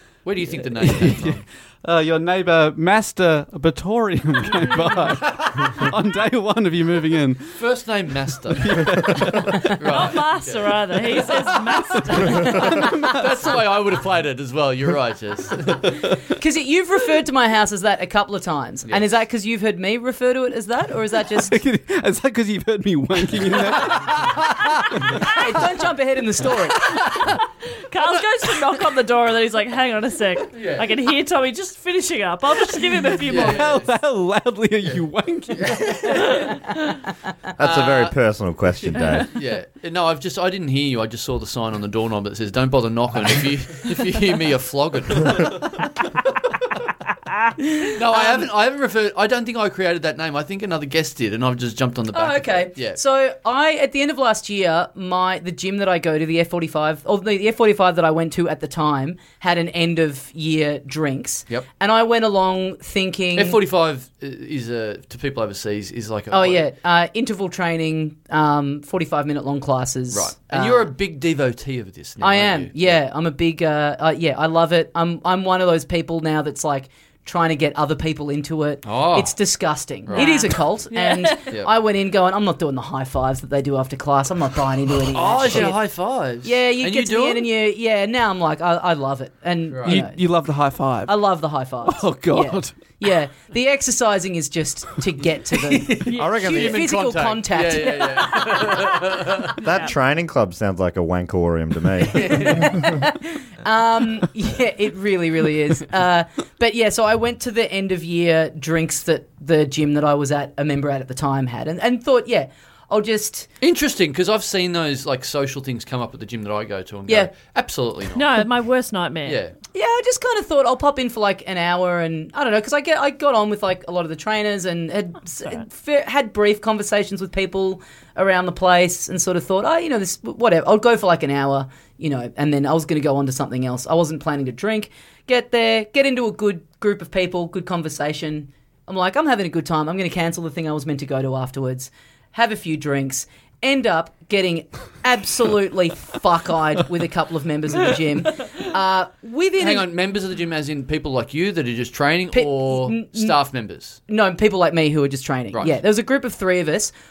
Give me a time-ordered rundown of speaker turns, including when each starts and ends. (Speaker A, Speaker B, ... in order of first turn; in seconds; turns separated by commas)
Speaker A: 0.2-1.4, Speaker B: 0.6-7.6, Speaker A: 5.1-5.9, Speaker A: 7.6-16.0, Speaker B: 8.5-9.8, Speaker C: 9.9-13.0, Speaker B: 12.1-13.6, Speaker D: 16.4-21.6, Speaker B: 21.4-25.3, Speaker A: 23.9-24.4, Speaker D: 25.2-26.8, Speaker C: 27.1-33.7, Speaker A: 30.5-30.9, Speaker B: 33.2-36.4, Speaker A: 33.3-33.9, Speaker A: 35.6-36.3, Speaker C: 36.1-37.0, Speaker E: 37.6-39.3, Speaker A: 37.6-38.2, Speaker A: 39.1-45.6, Speaker D: 47.9-48.5, Speaker A: 47.9-53.0, Speaker D: 52.1-63.6, Speaker A: 63.4-66.7, Speaker D: 66.3-70.9, Speaker A: 70.1-73.0, Speaker D: 72.2-85.8, Speaker A: 78.8-79.4, Speaker A: 80.1-80.5, Speaker C: 80.1-81.6, Speaker A: 85.1-87.5, Speaker D: 86.4-90.2, Speaker A: 89.7-90.0, Speaker B: 89.9-91.1, Speaker D: 91.1-98.9, Speaker B: 91.9-92.7, Speaker A: 95.7-99.6, Speaker C: 96.0-96.5, Speaker E: 96.2-96.7, Speaker C: 99.6-99.9, Speaker E: 99.6-102.8, Speaker A: 102.1-102.7, Speaker D: 102.3-113.5, Speaker A: 113.6-118.4, Speaker C: 118.1-119.4, Speaker A: 119.2-119.5, Speaker D: 119.7-149.9, Speaker A: 149.6-154.0, Speaker D: 152.3-153.4, Speaker D: 154.1-156.9